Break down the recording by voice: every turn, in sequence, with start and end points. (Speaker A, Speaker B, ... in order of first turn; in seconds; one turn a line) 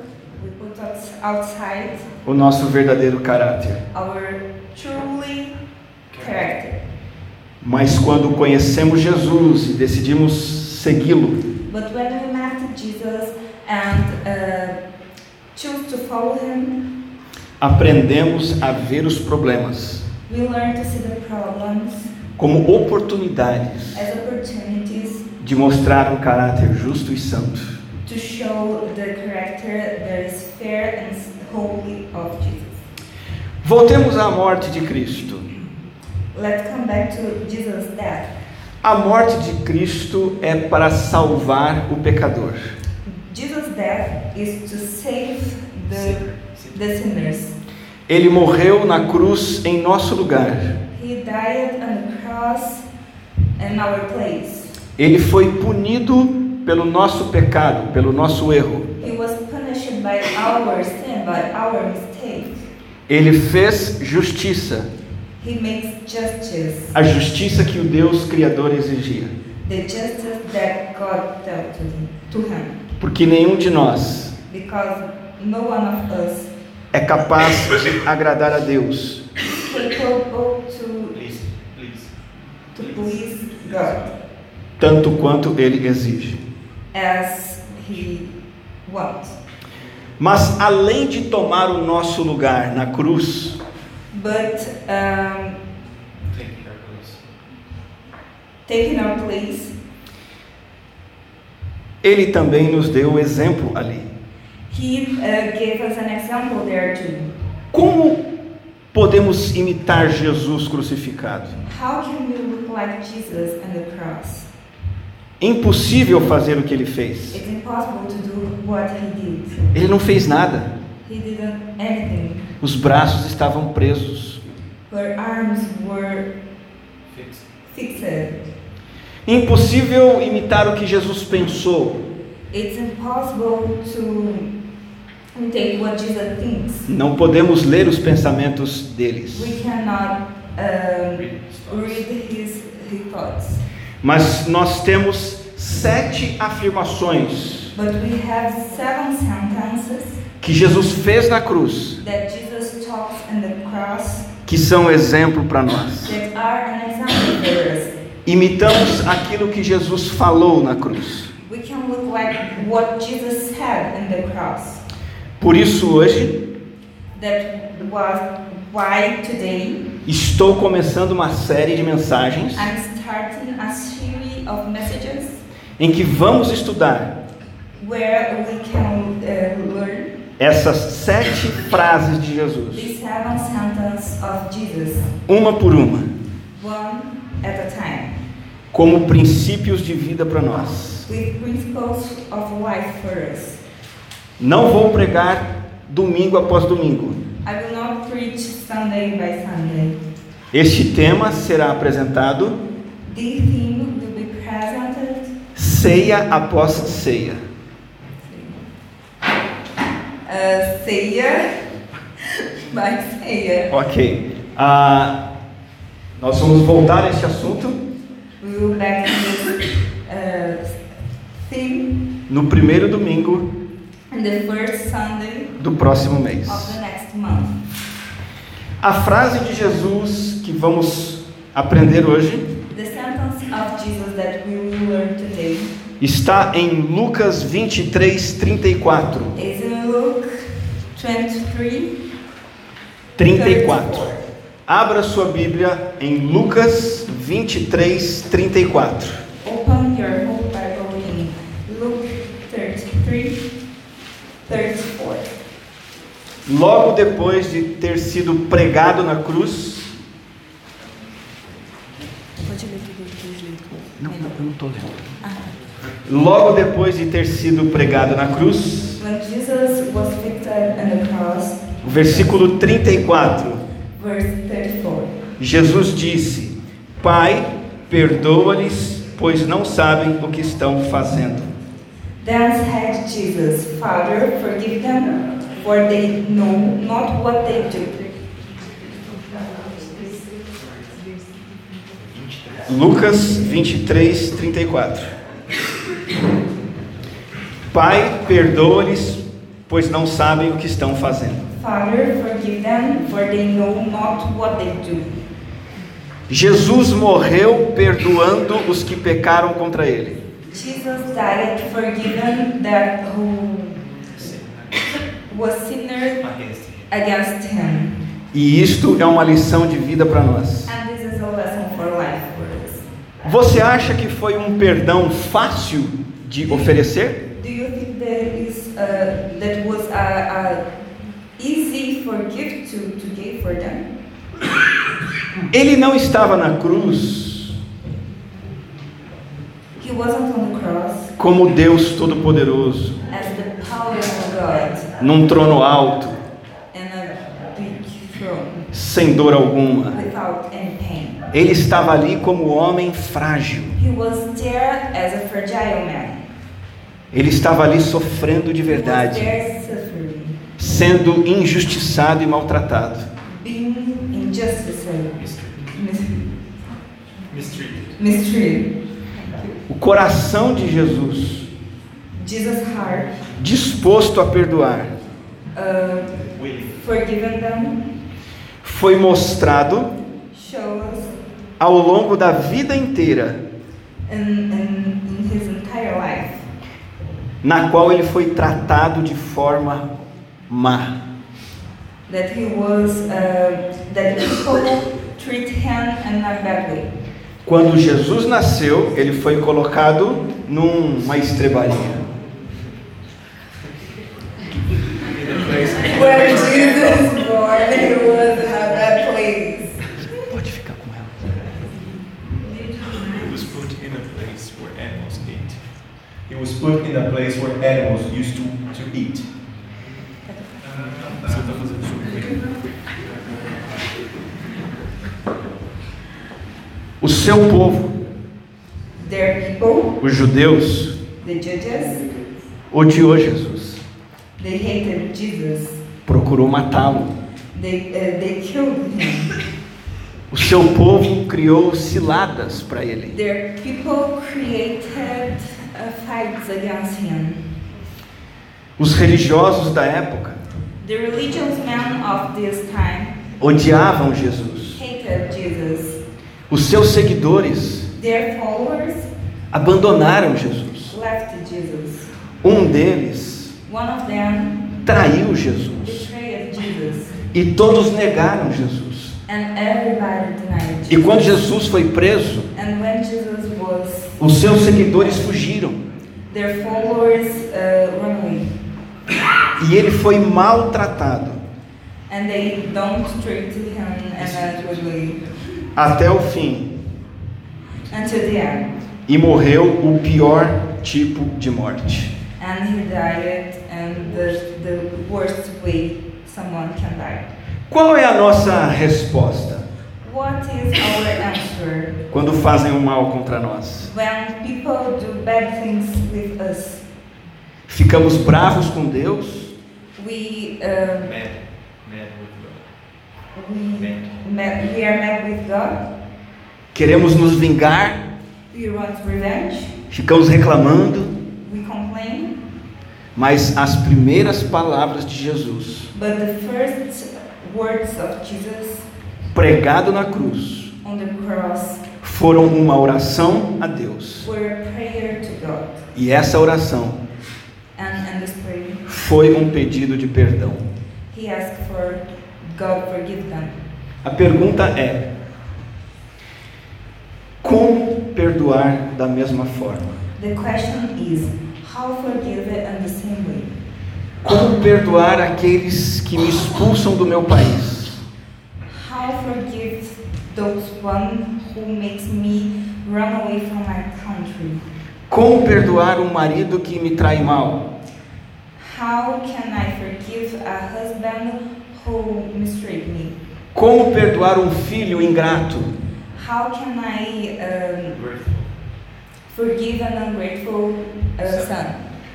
Speaker A: 0.3-2.1
Speaker B: 2.2-3.8
Speaker A: 3.9-5.5
Speaker A: 6.1-6.8
Speaker B: 7.6-11.4
Speaker A: 11.7-14.8
Speaker A: 15.5-16.8
Speaker B: 17.6-20.1
Speaker A: 20.3-22.1
Speaker B: 22.4-24.0
Speaker A: 23.9-25.3
Speaker B: 25.4-27.8
Speaker A: 28.0-32.8
Speaker B: 33.6-35.5
Speaker A: 36.3-38.3
Speaker B: 38.8-42.6
Speaker A: 43.0-47.5
Speaker C: 45.9-46.8
Speaker B: 48.1-50.8
Speaker A: 50.9-52.9
Speaker A: 53.6-54.7
Speaker B: 55.0-58.9
Speaker A: 59.0-62.7
Speaker B: 63.1-64.9
Speaker A: 65.4-67.0
Speaker B: 66.9-69.3
Speaker A: 69.6-72.8
Speaker B: 73.0-74.3
Speaker A: 74.5-76.5
Speaker B: 76.9-79.2
Speaker A: 79.5-81.2
Speaker C: 81.1-82.1
Speaker C: 82.7-84.2
Speaker A: 82.7-84.0
Speaker B: 84.8-86.4
Speaker A: 86.9-88.3
Speaker A: 88.8-89.4
Speaker B: 90.2-93.6
Speaker A: 94.1-95.6
Speaker C: 96.3-97.2
Speaker A: 98.7-99.7
Speaker B: 102.0-104.1
Speaker A: 104.7-107.3
Speaker B: 107.7-108.2
Speaker B: 108.9-111.6
Speaker A: 111.7-114.5
Speaker B: 115.4-117.4
Speaker A: 117.3-119.7
Speaker B: 119.7-120.7
Speaker A: 121.0-122.5
Speaker B: 122.6-124.4
Speaker A: 124.9-126.3
Speaker C: 127.1-127.5
Speaker A: 127.7-128.4
Speaker B: 129.2-132.0
Speaker A: 132.5-134.5
Speaker A: 135.3-136.9
Speaker B: 136.9-139.6
Speaker A: 139.3-143.6
Speaker C: 141.1-142.0
Speaker B: 144.0-147.7
Speaker A: 147.7-150.2
Speaker B: 150.4-152.0
Speaker A: 152.0-154.3
Speaker B: 154.4-156.1
Speaker A: 156.1-157.9
Speaker B: 158.2-161.3
Speaker A: 161.4-164.8
Speaker B: 165.4-166.4
Speaker A: 167.1-169.9
Speaker B: 170.0-172.7
Speaker A: 172.5-175.4
Speaker B: 175.8-177.2
Speaker A: 177.8-180.1
Speaker B: 180.4-182.9
Speaker A: 182.7-185.1
Speaker B: 185.3-186.1
Speaker A: 186.5-188.2
Speaker B: 188.7-191.1
Speaker A: 191.1-193.6
Speaker B: 194.4-197.2
Speaker A: 197.4-200.0
Speaker B: 200.5-202.6
Speaker A: 203.0-205.3
Speaker B: 205.5-207.4
Speaker A: 208.2-208.6
Speaker A: 210.2-211.6
Speaker A: 212.2-213.7
Speaker B: 213.7-215.2
Speaker B: 216.2-217.8
Speaker A: 218.4-220.8
Speaker A: 221.4-222.0
Speaker B: 222.3-223.5
Speaker A: 224.1-225.5
Speaker B: 225.6-226.8
Speaker A: 226.4-227.6
Speaker B: 228.8-232.5
Speaker A: 232.7-235.7
Speaker B: 236.0-239.4
Speaker A: 239.3-240.4
Speaker A: 240.9-241.9
Speaker B: 243.2-244.1
Speaker A: 243.3-244.2
Speaker B: 244.7-249.2
Speaker A: 249.4-253.4
Speaker A: 254.4-255.3
Speaker B: 256.4-259.9
Speaker B: 264.0-265.0
Speaker A: 265.2-265.5
Speaker B: 266.1-269.0
Speaker A: 269.0-271.8
Speaker B: 271.8-273.6
Speaker A: 274.0-275.1
Speaker B: 275.4-281.5
Speaker A: 282.2-288.1
Speaker C: 292.0-292.7
Speaker B: 292.7-295.1
Speaker B: 297.7-301.5
Speaker A: 301.5-305.2
Speaker B: 306.3-310.2
Speaker A: 310.5-313.8
Speaker C: 314.0-315.0
Speaker A: 315.3-316.2
Speaker C: 316.2-316.9
Speaker A: 316.9-318.0
Speaker B: 318.3-320.7
Speaker A: 320.7-322.8
Speaker B: 323.2-327.2
Speaker A: 327.3-330.6
Speaker A: 331.4-333.9
Speaker B: 335.5-337.6
Speaker A: 339.8-341.1
Speaker B: 341.2-343.0
Speaker A: 343.1-344.9
Speaker B: 345.0-346.2
Speaker A: 346.7-348.7
Speaker B: 348.7-350.0
Speaker A: 349.9-351.2
Speaker B: 351.3-353.8
Speaker A: 353.7-356.2
Speaker B: 357.1-359.3
Speaker A: 358.6-360.4
Speaker B: 360.6-363.1
Speaker A: 363.2-365.2
Speaker C: 365.2-365.8
Speaker A: 365.7-366.3
Speaker C: 367.3-367.9
Speaker A: 368.0-369.6
Speaker B: 369.7-371.5
Speaker A: 372.1-373.1
Speaker B: 373.4-374.9
Speaker A: 375.5-377.8
Speaker C: 376.3-376.8
Speaker B: 378.6-379.9
Speaker A: 380.3-381.1
Speaker B: 381.6-383.4
Speaker A: 384.1-386.4
Speaker B: 387.4-389.9
Speaker B: 390.5-390.9
Speaker A: 392.1-396.9
Speaker B: 397.4-402.0
Speaker C: 405.0-407.0
Speaker A: 405.8-409.8
Speaker B: 410.3-411.4
Speaker A: 412.5-413.3
Speaker C: 412.9-415.6
Speaker C: 416.3-419.2
Speaker A: 420.2-420.7
Speaker C: 420.6-422.5
Speaker B: 427.0-427.9
Speaker A: 429.0-430.0
Speaker B: 430.0-431.0
Speaker A: 431.2-432.1
Speaker B: 432.7-433.8
Speaker A: 434.4-435.8
Speaker B: 436.1-437.1
Speaker A: 437.5-439.4
Speaker B: 440.3-443.1
Speaker A: 443.1-447.4
Speaker B: 448.8-450.4
Speaker A: 450.8-453.2
Speaker B: 453.4-454.8
Speaker A: 454.7-456.0
Speaker B: 456.5-457.9
Speaker A: 457.9-459.1
Speaker B: 459.5-460.9
Speaker A: 460.9-462.1
Speaker B: 462.4-463.5
Speaker A: 463.6-464.7
Speaker B: 464.8-466.0
Speaker A: 465.8-467.2
Speaker B: 467.3-469.2
Speaker A: 469.3-471.4
Speaker B: 470.9-472.5
Speaker A: 472.5-474.2
Speaker B: 474.2-475.8
Speaker A: 476.3-478.5
Speaker B: 479.6-481.4
Speaker A: 482.1-485.2
Speaker C: 484.2-485.2
Speaker B: 485.8-486.7
Speaker A: 487.9-488.7
Speaker B: 489.1-492.1
Speaker A: 492.4-497.3
Speaker B: 497.7-499.6
Speaker A: 500.0-502.0
Speaker B: 502.1-503.9
Speaker A: 503.8-506.8
Speaker B: 507.7-509.5
Speaker A: 509.9-511.1
Speaker C: 511.0-512.7
Speaker A: 513.3-515.8
Speaker C: 513.8-514.2
Speaker B: 516.7-518.0
Speaker A: 518.5-519.8
Speaker B: 519.9-521.1
Speaker A: 521.4-522.4
Speaker B: 523.1-525.9
Speaker A: 525.9-528.9
Speaker B: 529.3-530.7
Speaker A: 530.8-531.9
Speaker B: 532.0-534.3
Speaker A: 534.2-535.8
Speaker B: 535.9-537.0
Speaker A: 537.8-538.8
Speaker B: 538.9-540.6
Speaker A: 541.1-543.6
Speaker B: 544.0-545.1
Speaker B: 547.4-550.0
Speaker A: 550.1-553.5
Speaker B: 554.2-558.0
Speaker A: 558.7-564.6
Speaker B: 565.1-567.6
Speaker A: 568.6-573.2
Speaker B: 573.5-575.7
Speaker A: 576.1-578.0
Speaker C: 577.9-578.5
Speaker A: 579.3-581.8